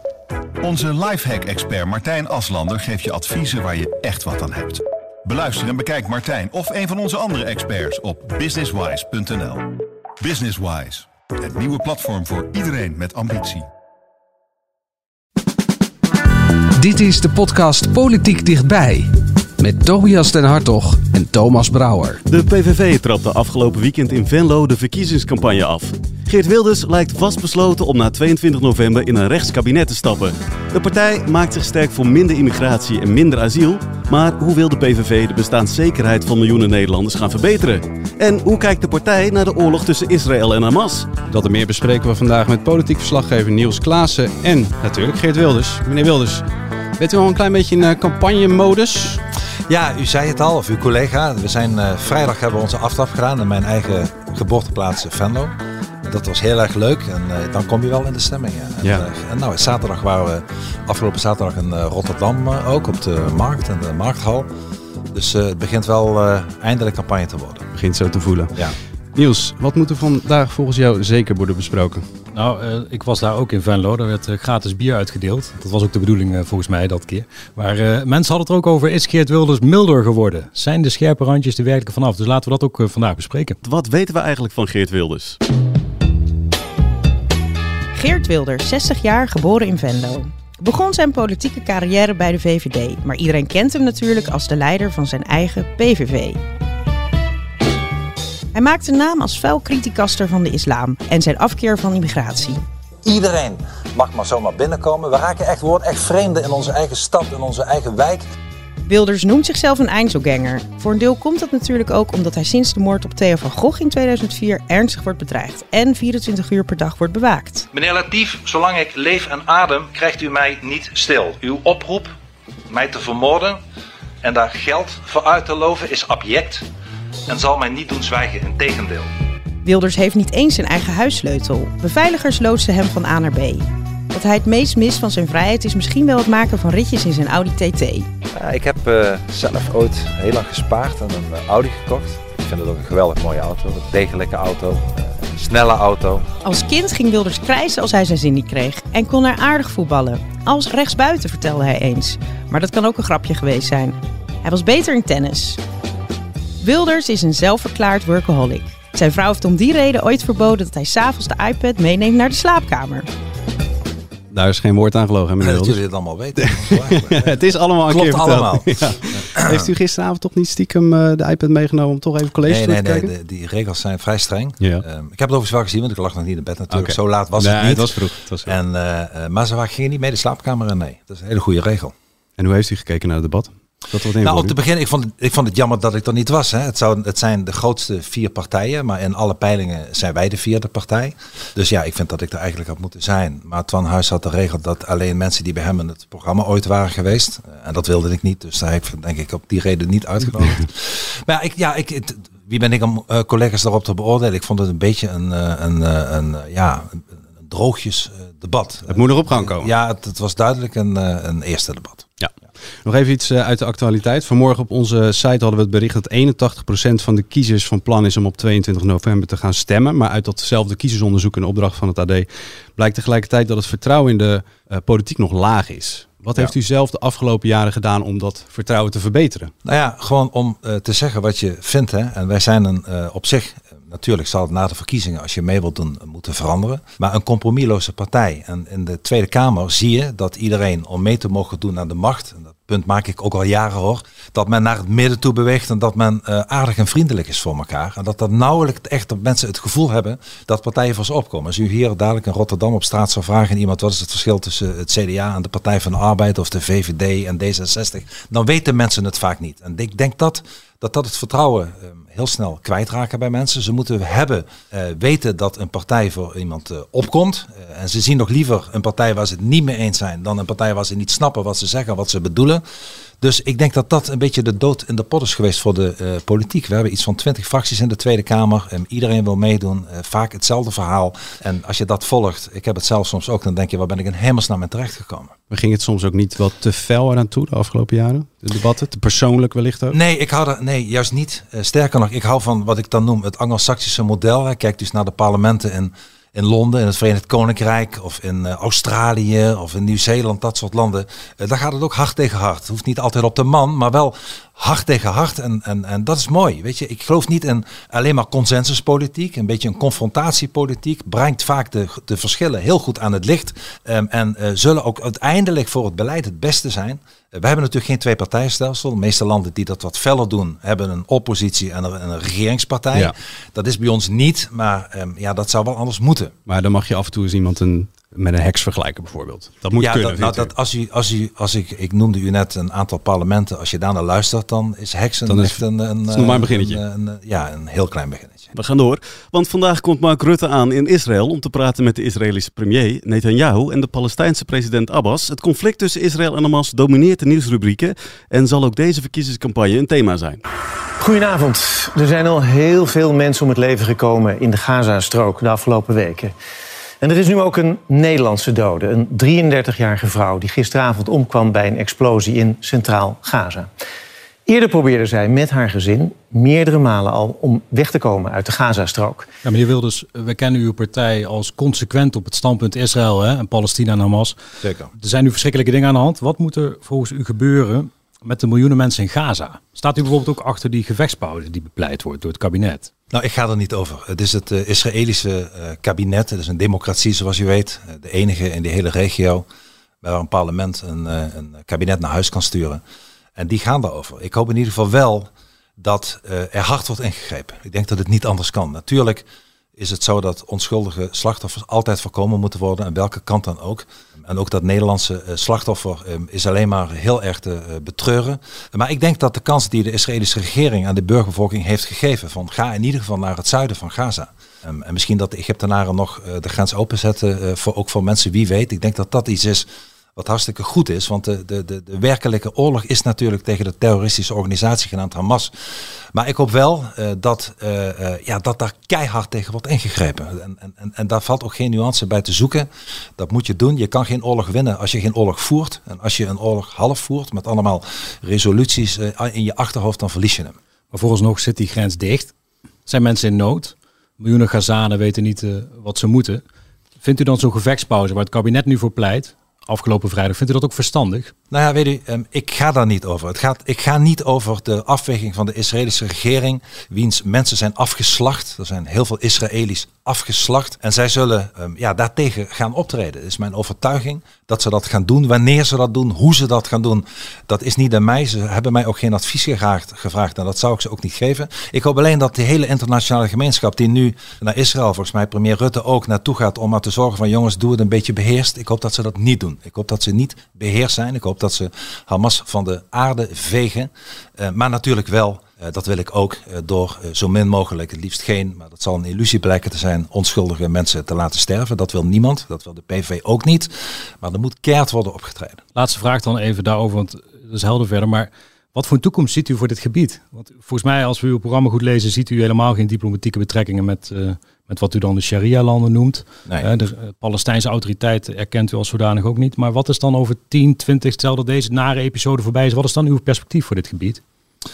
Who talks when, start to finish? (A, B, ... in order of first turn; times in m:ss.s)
0:00.6-0:13.7 A
0:16.8-0:22.2 B
0:22.2-0:41.1 C
0:41.3-0:46.4 D
0:47.0-0:49.2 D
0:49.7-1:04.5 E
1:05.1-1:07.7 E
1:07.7-1:12.0 D
1:12.3-1:23.6 F
1:23.6-1:25.4 C
1:27.9-1:36.4 G
1:38.5-1:42.6 G
1:43.0-1:48.2 E
1:48.9-1:57.7 G
1:57.7-2:02.1 E
2:02.7-2:03.6 E
2:04.2-2:06.7 E
2:07.3-2:09.1 E
2:09.6-2:18.1 G
2:18.3-2:26.3 E
2:26.4-2:35.6 G
2:36.6-2:43.1 G
2:44.3-2:45.8 D
2:45.4-2:49.7 E
2:46.4-2:53.1 D
2:52.4-3:01.9 E
2:56.7-2:58.5 D
3:02.4-3:04.5 D
3:04.2-3:32.1 E
3:28.9-3:29.7 D
3:32.8-3:49.5 D
3:49.6-4:32.6 E
4:33.2-4:45.3 E
4:45.5-4:50.0 D
4:49.9-5:26.3 E
5:26.5-5:30.5 D
5:29.8-5:38.5 E
5:35.3-5:36.8 D
5:38.5-5:50.4 C
5:51.0-5:56.3 H
5:57.0-6:03.7 H
6:04.4-6:09.3 H
6:09.4-6:14.4 F
6:14.6-6:14.9 E
6:15.0-6:22.9 F
6:23.1-6:29.4 E
6:30.0-6:32.8 E
6:33.4-6:39.2 E
6:39.8-7:05.5 E
7:06.1-7:20.6 E
7:20.9-7:22.3 F
7:22.8-7:26.4 F
7:27.0-7:31.3 F
7:31.5-8:15.6 E
8:15.7-8:34.2 F